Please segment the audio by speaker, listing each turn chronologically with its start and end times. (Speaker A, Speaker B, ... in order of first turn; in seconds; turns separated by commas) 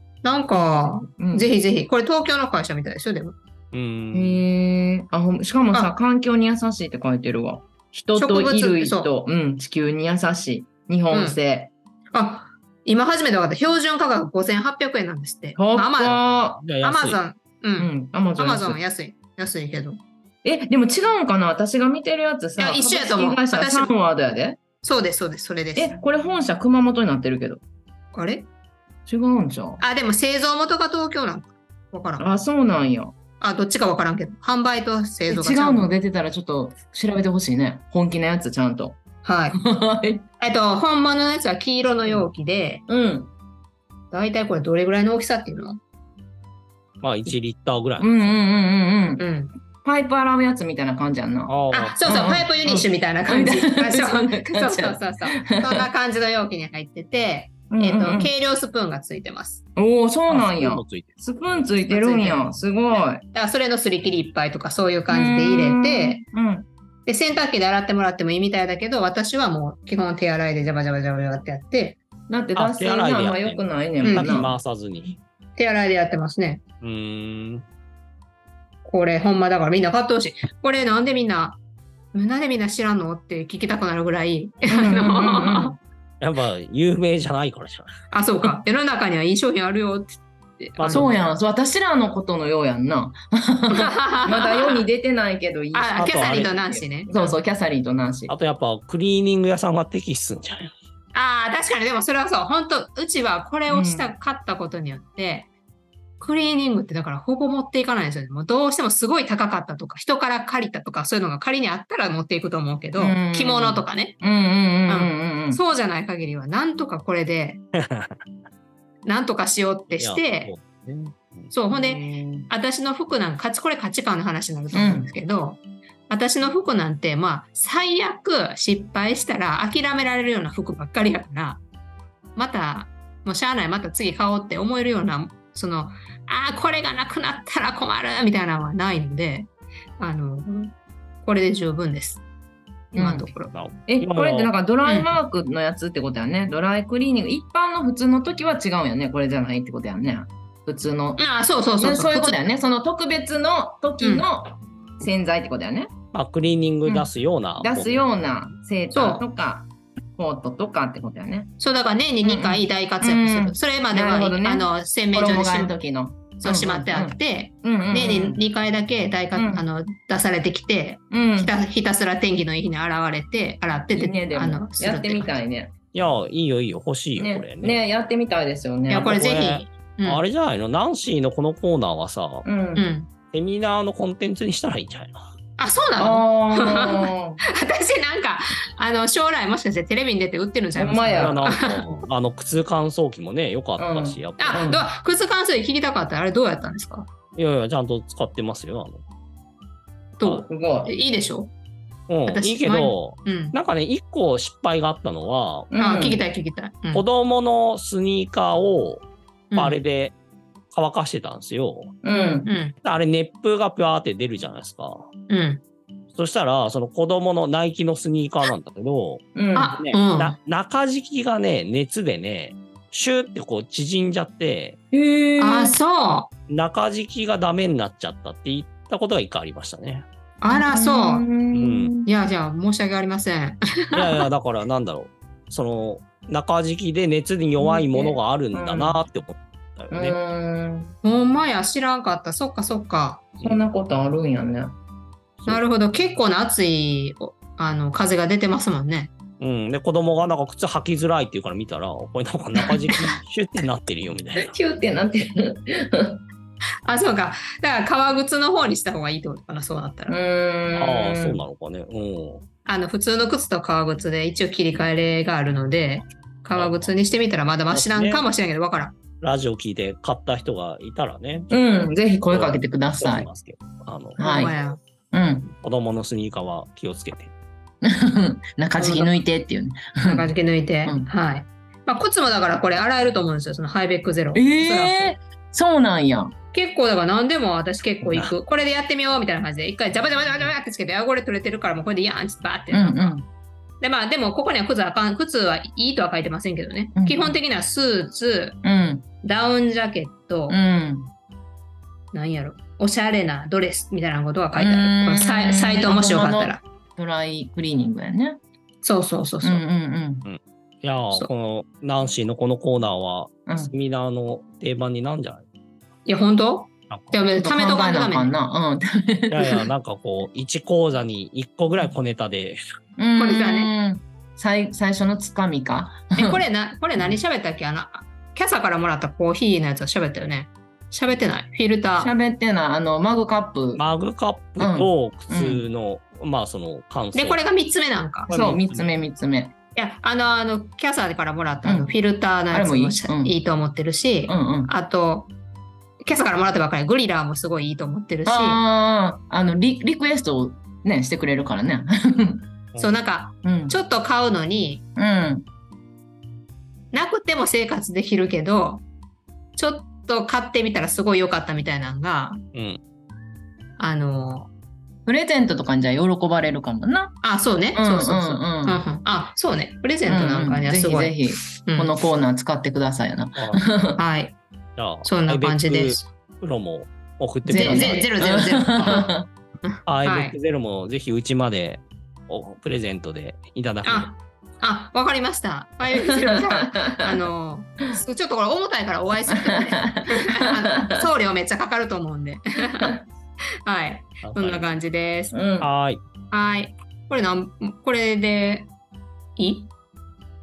Speaker A: 0.2-3.4, Speaker B: 0.5-1.5, Speaker C: 3.7-4.4, Speaker B: 4.1-11.7, Speaker A: 8.1-9.1, Speaker A: 11.1-11.4, Speaker A: 12.1-16.2, Speaker B: 15.6-16.6, Speaker C: 16.6-17.2, Speaker A: 16.8-20.0, Speaker B: 17.8-18.8, Speaker B: 20.4-24.6, Speaker A: 22.6-23.9, Speaker A: 24.8-26.0, Speaker B: 25.8-27.6, Speaker A: 28.1-28.5, Speaker B: 29.1-29.8, Speaker A: 29.8-32.3, Speaker B: 32.2-33.1, Speaker A: 33.4-35.9, Speaker B: 35.3-39.0, Speaker A: 39.2-39.6, Speaker B: 39.5-40.2, Speaker A: 40.4-42.8, Speaker B: 42.9-43.3, Speaker A: 44.1-45.8, Speaker C: 47.0-48.1, Speaker B: 48.0-49.2, Speaker A: 49.2-49.5, Speaker B: 49.8-51.5, Speaker C: 51.5-52.4, Speaker A: 51.7-59.6, Speaker B: 52.0-55.9, Speaker B: 57.7-58.3, Speaker B: 59.8-63.2, Speaker C: 60.3-61.7, Speaker A: 61.9-62.5, Speaker A: 63.3-66.2, Speaker B: 65.1-66.7, Speaker A: 67.1-72.0, Speaker B: 72.3-74.6, Speaker C: 72.5-75.2, Speaker A: 74.0-74.4, Speaker A: 75.6-76.6, Speaker C: 76.8-77.7, Speaker A: 78.8-81.6, Speaker A: 82.1-85.8, Speaker B: 84.7-85.8, Speaker C: 86.2-87.9, Speaker A: 88.1-91.1, Speaker C: 90.8-91.2, Speaker B: 90.9-98.3, Speaker A: 93.7-94.8, Speaker A: 95.7-97.4, Speaker C: 96.0-96.5, Speaker C: 98.3-100.7, Speaker A: 101.1-105.5, Speaker B: 103.7-104.1, Speaker A: 106.2-114.2, Speaker B: 113.0-115.6, Speaker A: 114.9-117.6, Speaker C: 117.8-118.2, Speaker A: 119.0-120.5, Speaker C: 119.9-121.5, Speaker A: 121.5-131.6, Speaker B: 121.7-122.5, Speaker B: 124.7-125.1, Speaker A: 132.4-142.2, Speaker A: 142.9-143.5, Speaker B: 142.9-143.3, Speaker C: 143.5-144.5, Speaker B: 143.9-151.2, Speaker A: 144.8-145.2, Speaker A: 151.2-152.4, Speaker B: 151.8-155.9, Speaker A: 154.0-154.3, Speaker C: 156.1-158.1, Speaker B: 156.8-161.5, Speaker A: 158.9-159.2, Speaker A: 161.6-165.8, Speaker B: 162.2-168.4, Speaker A: 166.4-175.4, Speaker B: 169.3-169.7, Speaker B: 171.1-171.5, Speaker B: 173.9-175.7, Speaker C: 175.9-177.8, Speaker B: 177.2-179.2, Speaker A: 178.9-180.2, Speaker C: 179.0-182.4, Speaker B: 182.4-182.9, Speaker A: 182.8-183.1, Speaker C: 183.3-185.2, Speaker A: 185.6-192.0, Speaker B: 186.0-187.4, Speaker B: 190.8-191.5, Speaker C: 191.2-194.7, Speaker B: 193.8-194.8, Speaker A: 194.4-197.1, Speaker C: 197.3-199.0, Speaker A: 200.2-201.5, Speaker B: 200.5-200.9, Speaker C: 202.1-205.7, Speaker A: 202.3-203.6, Speaker B: 205.7-206.2, Speaker A: 205.8-207.1, Speaker C: 206.9-210.2, Speaker A: 209.5-209.8, Speaker C: 210.7-212.0, Speaker B: 212.0-212.5, Speaker A: 212.1-212.8, Speaker C: 212.8-215.1, Speaker A: 215.3-215.6, Speaker C: 216.2-224.8, Speaker B: 219.4-219.8, Speaker A: 219.6-220.4, Speaker B: 224.9-225.8, Speaker A: 225.4-226.3, Speaker C: 226.5-230.1, Speaker A: 230.4-231.3, Speaker B: 230.5-232.1, Speaker C: 231.5-231.9, Speaker A: 232.1-234.1, Speaker C: 233.9-240.2, Speaker B: 237.6-239.0, Speaker B: 239.9-240.9, Speaker A: 241.0-243.3, Speaker B: 243.4-244.8, Speaker A: 245.5-249.1, Speaker C: 249.4-254.6, Speaker B: 254.4-256.2, Speaker A: 256.9-260.2, Speaker B: 260.1-261.4, Speaker C: 260.7-262.4, Speaker A: 262.7-268.9, Speaker C: 266.5-266.9, Speaker C: 267.7-268.3, Speaker C: 269.2-271.5, Speaker B: 271.5-273.3, Speaker C: 272.3-274.2, Speaker B: 274.2-274.6, Speaker A: 274.2-274.8, Speaker B: 275.1-275.5, Speaker C: 275.6-277.3, Speaker B: 277.8-280.3, Speaker A: 278.8-279.2, Speaker A: 280.0-285.1, Speaker B: 280.9-281.1, Speaker B: 284.4-286.3, Speaker A: 286.5-293.2, Speaker B: 292.7-293.3, Speaker A: 293.8-298.6, Speaker B: 296.9-297.4, Speaker B: 298.6-299.1, Speaker A: 299.2-300.6, Speaker B: 300.5-301.1, Speaker A: 302.1-306.6, Speaker B: 304.6-308.4, Speaker A: 308.8-309.6, Speaker B: 309.4-310.3, Speaker C: 310.3-315.4, Speaker A: 316.1-318.3, Speaker C: 316.9-317.2, Speaker B: 317.4-319.6, Speaker C: 319.3-322.6, Speaker B: 323.0-326.4, Speaker A: 323.2-323.7, Speaker A: 326.2-332.1, Speaker B: 332.0-333.8, Speaker C: 333.8-337.4, Speaker B: 334.6-335.6, Speaker A: 337.1-338.3, Speaker C: 338.3-339.0, Speaker B: 338.3-339.5, Speaker A: 339.8-345.3, Speaker B: 341.6-341.9, Speaker B: 342.5-343.4, Speaker B: 344.3-344.7, Speaker A: 346.0-348.6, Speaker B: 348.2-352.4, Speaker A: 352.8-354.8, Speaker B: 353.4-353.8, Speaker B: 355.0-355.5, Speaker A: 356.9-358.9, Speaker A: 359.6-362.4, Speaker C: 362.5-362.8, Speaker A: 363.8-364.5, Speaker B: 365.1-367.2, Speaker A: 367.2-371.9, Speaker B: 367.8-368.8, Speaker B: 370.1-374.0, Speaker C: 373.4-373.6, Speaker A: 374.0-374.4, Speaker C: 374.8-378.1, Speaker A: 375.1-376.1, Speaker B: 377.4-379.3, Speaker A: 377.5-380.4, Speaker C: 379.9-384.1, Speaker A: 383.8-393.0, Speaker B: 385.9-386.3, Speaker B: 389.4-390.5, Speaker A: 393.6-395.4, Speaker C: 394.2-394.7, Speaker B: 395.3-395.7, Speaker C: 395.6-396.0, Speaker A: 396.3-398.7, Speaker A: 399.4-399.7